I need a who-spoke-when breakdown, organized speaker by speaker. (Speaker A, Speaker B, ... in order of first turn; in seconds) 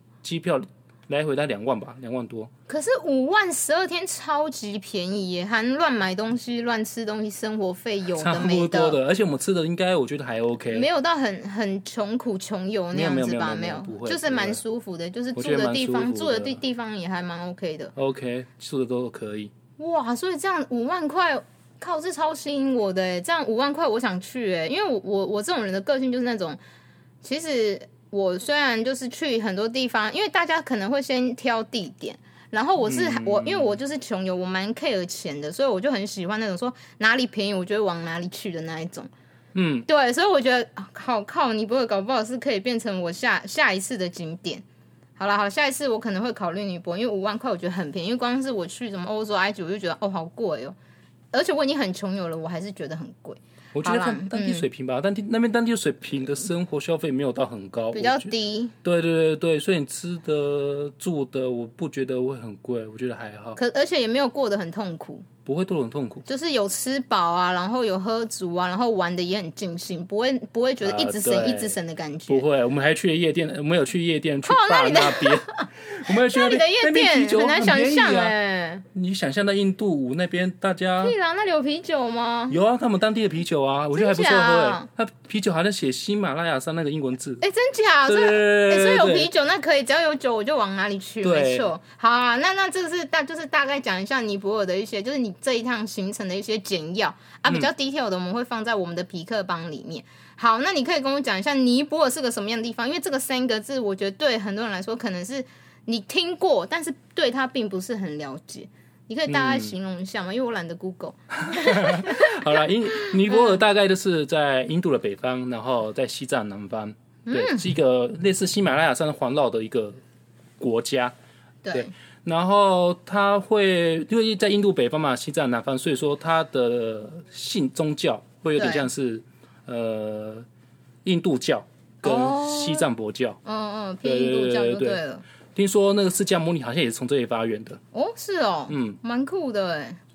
Speaker A: 0.2-2.5, 8.2-10.9, 12.9-14.6, 15.3-16.6, 18.0-19.5, 32.8-33.8, 39.5-39.9, 53.8-58.3, 58.8-63.6, 65.5-66.2, 70.8-71.8, 72.3-78.3, 78.9-81.2, 82.5-87.4, 88.1-89.3, 91.2-91.7, 109.3-109.7, 111.4-120.0, 120.6-121.1, 121.7-130.5, 131.0-133.4, 134.0-135.0, 135.6-137.8, 138.7-139.0
Speaker B: 2.7-9.0, 10.7-17.9, 19.8-26.6, 27.2-39.1, 39.9-44.6, 45.2-50.8, 51.3-54.6, 57.9-58.8, 63.6-65.3, 66.3-72.5, 74.4-78.8, 81.0-82.6, 83.9-84.9, 87.4-112.5, 113.3-113.6, 117.3-117.7, 121.6-121.9, 128.6-128.9, 132.0-132.9, 133.4-135.2, 137.9-140.0